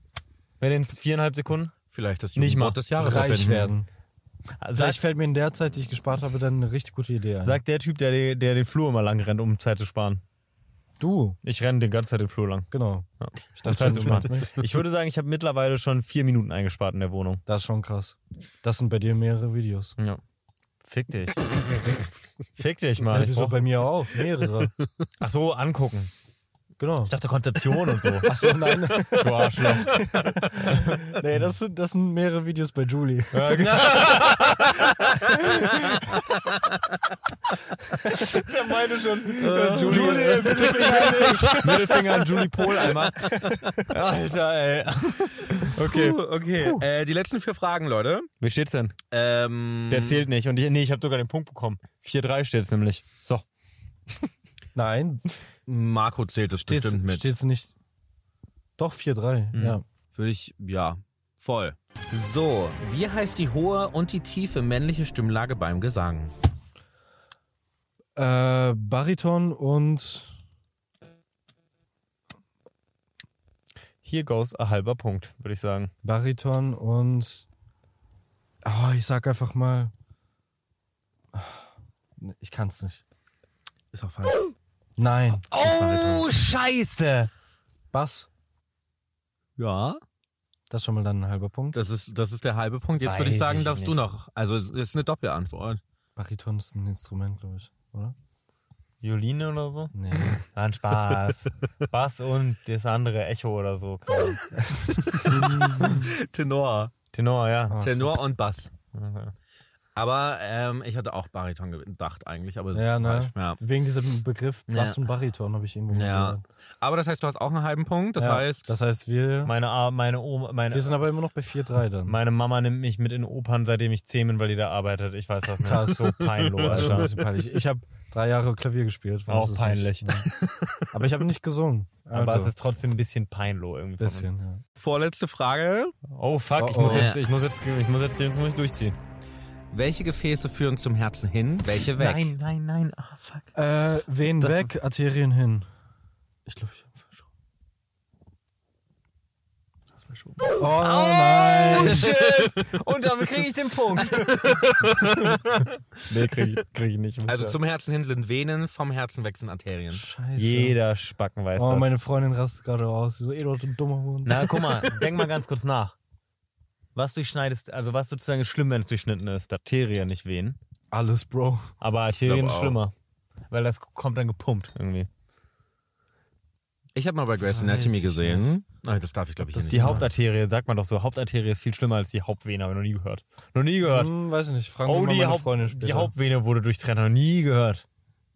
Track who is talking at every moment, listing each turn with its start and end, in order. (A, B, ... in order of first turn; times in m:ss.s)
0:00.6-0:01.7 A
0:01.9-0:03.8 B
0:02.4-0:02.8 A
0:03.0-0:03.9 C
0:04.6-0:05.0 A
0:04.8-0:07.6 C
0:07.4-0:10.2 A
0:11.0-0:11.4 C
0:11.4-0:17.4 A
0:12.7-0:14.6 C
0:17.5-0:20.0 C
0:20.8-0:22.0 A
0:22.6-0:23.6 A
0:23.1-0:24.7 C
0:25.2-0:26.1 A
0:26.8-0:27.1 C
0:27.1-0:28.3 A
0:28.2-0:33.9 C
0:28.7-0:29.1 B
0:29.0-0:30.0 A
0:29.9-0:30.2 B
0:30.5-0:31.2 A
0:33.3-0:36.4 A
0:33.8-0:34.7 B
0:36.5-0:36.8 B
0:37.9-0:46.8 A
0:39.4-0:43.8 B
0:39.4-0:43.6 C
0:45.6-0:48.3 B
0:48.4-0:49.0 A
0:49.1-0:50.3 B
0:49.9-0:53.4 A
0:54.7-0:55.2 C
0:55.7-0:57.3 B
0:56.7-0:57.7 C
0:58.8-0:59.8 C
0:59.5-0:59.8 A
1:00.1-1:06.3 B
1:08.2-1:10.4 C
1:14.0-1:15.9 A
1:16.0-1:17.5 C
1:18.6-1:19.9 C
1:21.3-1:23.0 C
1:23.9-1:24.4 C
1:25.0-1:26.3 C
1:25.5-1:27.3 A
1:27.9-1:28.3 C
1:29.6-1:30.0 B
1:30.7-1:31.8 C
1:31.7-1:35.8 B
1:33.0-1:34.1 A
1:36.2-1:38.2 C
1:39.0-1:44.4 A
1:39.9-1:40.4 C
1:44.6-1:46.1 C
1:44.9-1:46.9 B
1:45.3-1:45.8 A
1:47.1-1:47.8 A
1:47.7-1:48.2 C
1:47.8-1:48.7 B
1:48.9-1:49.3 A
1:50.0-1:53.6 B
1:52.7-1:56.4 C
1:54.7-1:55.0 B
1:55.9-1:58.8 B
1:58.2-1:59.5 C
1:59.4-2:01.0 A
2:00.7-2:02.2 C
2:02.0-2:07.1 A
2:05.6-2:10.3 C
2:06.4-2:07.2 B
2:09.3-2:10.3 A
2:10.3-2:11.1 B
2:10.9-2:12.5 C
2:12.1-2:14.3 A
2:14.0-2:14.6 C
2:14.8-2:16.0 B
2:16.1-2:19.0 A
2:16.6-2:17.1 C
2:16.8-2:17.2 B
2:19.7-2:22.3 B
2:22.0-2:23.5 A
2:23.6-2:25.7 C
2:26.5-2:27.3 C
2:30.2-2:35.4 A
2:30.6-2:32.1 C
2:31.8-2:32.5 B
2:34.0-2:35.8 B
2:36.1-2:37.6 A
2:37.3-2:40.1 B
2:39.9-2:40.8 C
2:40.4-2:41.9 A
2:41.6-2:45.0 C
2:44.3-2:46.0 A
2:47.0-2:50.6 A
2:50.9-2:51.7 C
2:51.8-2:52.9 A
2:52.2-2:52.8 B
2:53.5-2:55.1 A
2:57.0-3:00.1 B
2:57.4-2:58.6 C
2:59.4-3:00.1 C
2:59.7-3:04.1 A
3:03.8-3:06.1 C
3:04.9-3:07.8 A